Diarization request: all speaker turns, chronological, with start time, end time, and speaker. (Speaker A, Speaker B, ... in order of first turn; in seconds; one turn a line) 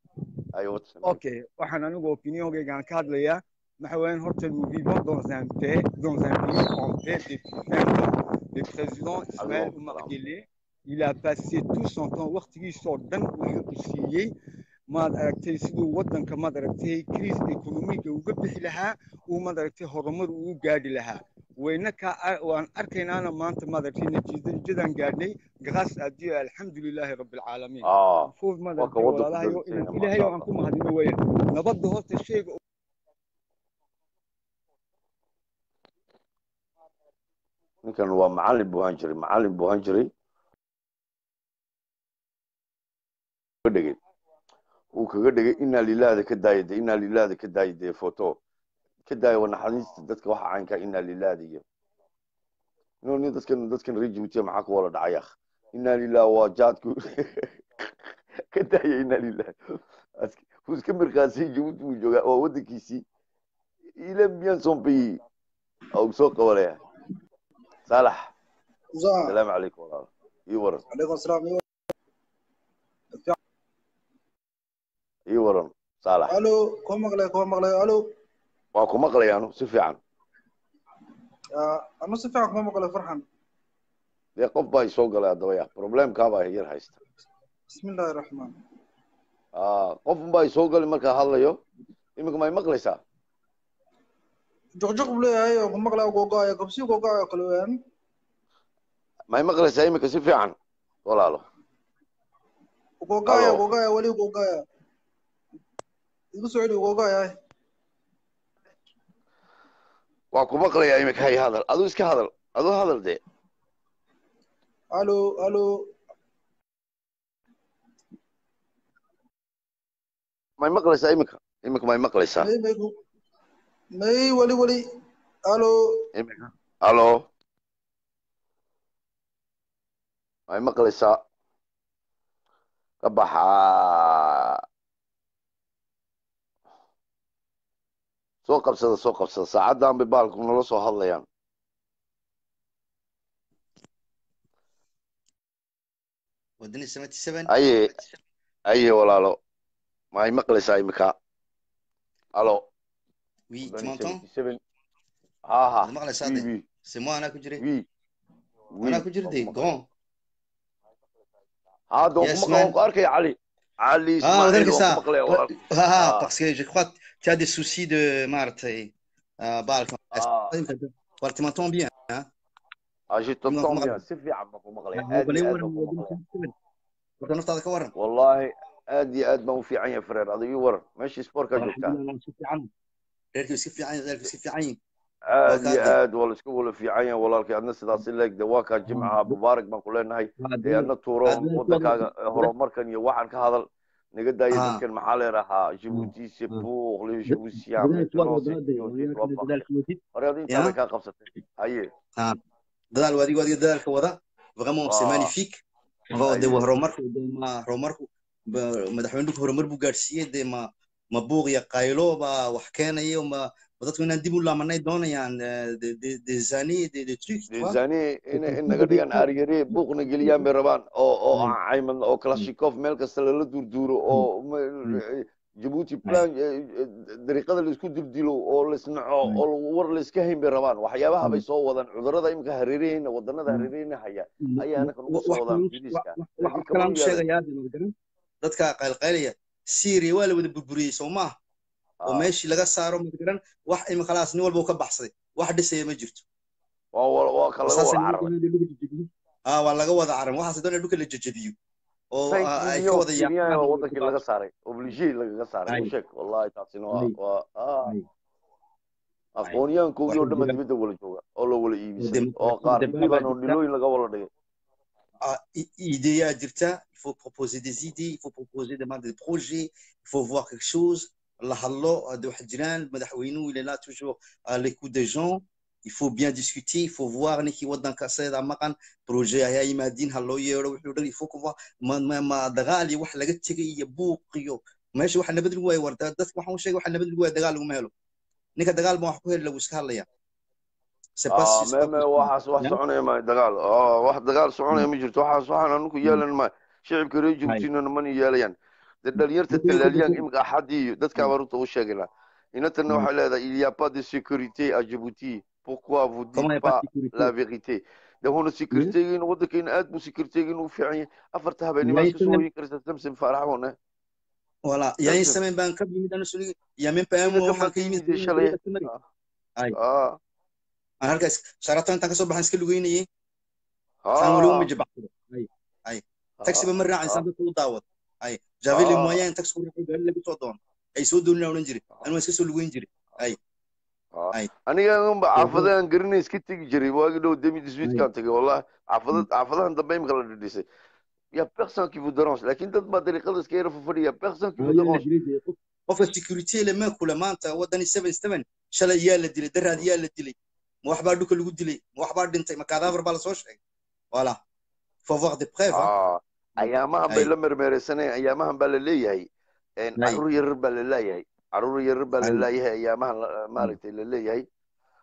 Speaker A: 0.5-1.2
Speaker B: 1.0-14.3
Speaker A: 9.4-10.1
Speaker B: 14.9-32.6
Speaker A: 27.8-30.5
Speaker A: 37.8-40.1
Speaker A: 43.6-44.0
Speaker A: 44.9-48.4
Speaker A: 49.1-51.6
Speaker A: 53.0-57.5
Speaker A: 58.5-63.0
Speaker A: 64.0-65.2
Speaker A: 65.9-66.8
Speaker A: 67.9-68.3
Speaker C: 69.0-69.4
Speaker A: 69.2-70.8
Speaker C: 70.9-71.6
Speaker A: 75.3-76.3
Speaker C: 76.3-78.0
Speaker A: 78.7-80.0
Speaker C: 81.5-83.2
Speaker A: 84.4-87.0
Speaker C: 87.7-88.5
Speaker A: 89.5-91.6
Speaker A: 92.2-93.0
Speaker C: 94.8-97.8
Speaker A: 99.3-101.4
Speaker C: 103.0-104.6
Speaker A: 103.3-103.6
Speaker C: 106.3-107.3
Speaker A: 110.3-113.2
Speaker C: 114.9-115.7
Speaker A: 120.6-122.5
Speaker C: 122.3-122.9
Speaker C: 124.0-124.8
Speaker C: 125.5-125.7
Speaker A: 126.1-127.2
Speaker A: 130.5-131.2
Speaker A: 133.0-134.6
Speaker A: 138.4-141.2
Speaker D: 146.6-148.2
Speaker A: 147.5-147.9
Speaker A: 148.7-149.4
Speaker A: 150.1-151.1
Speaker A: 152.3-152.6
Speaker D: 153.5-154.2
Speaker A: 153.6-154.6
Speaker A: 155.5-156.6
Speaker D: 155.8-157.6
Speaker A: 157.6-157.8
Speaker A: 158.7-159.7
Speaker D: 158.8-159.8
Speaker A: 161.9-166.3
Speaker D: 162.2-162.7
Speaker D: 164.2-172.3
Speaker A: 170.1-170.6
Speaker A: 173.1-176.2
Speaker D: 173.5-174.0
Speaker D: 174.9-176.5
Speaker D: 177.2-177.9
Speaker A: 177.9-181.9
Speaker D: 181.5-182.7
Speaker D: 183.3-184.8
Speaker A: 185.3-201.9
Speaker D: 185.5-186.0
Speaker D: 188.9-189.4
Speaker D: 190.4-192.5
Speaker D: 194.5-194.8
Speaker D: 195.9-196.7
Speaker D: 197.3-200.7
Speaker D: 202.9-217.8
Speaker A: 204.8-205.3
Speaker A: 206.2-206.7
Speaker A: 217.5-237.2
Speaker D: 218.3-220.5
Speaker D: 234.4-241.3
Speaker A: 242.0-242.3
Speaker D: 242.1-246.2
Speaker A: 246.9-248.3
Speaker D: 247.7-251.6
Speaker D: 252.1-254.2
Speaker A: 252.3-257.9
Speaker A: 259.4-264.3
Speaker D: 259.4-260.6
Speaker D: 262.0-263.6
Speaker D: 265.2-287.9
Speaker D: 288.6-290.1
Speaker D: 291.2-292.8
Speaker A: 291.3-313.7
Speaker D: 299.5-300.2
Speaker D: 306.3-307.3
Speaker D: 311.8-312.4
Speaker D: 314.6-318.9
Speaker A: 315.0-315.4
Speaker A: 317.2-319.0
Speaker A: 319.7-320.2
Speaker D: 321.0-323.1
Speaker A: 324.0-324.7
Speaker D: 324.2-333.4
Speaker A: 326.4-327.2
Speaker A: 328.7-329.2
Speaker A: 334.1-340.6
Speaker D: 335.4-335.7
Speaker A: 341.3-345.1
Speaker D: 344.6-353.6
Speaker D: 354.1-354.4
Speaker D: 355.1-355.9
Speaker A: 355.7-359.3
Speaker D: 356.6-357.3
Speaker A: 359.8-364.4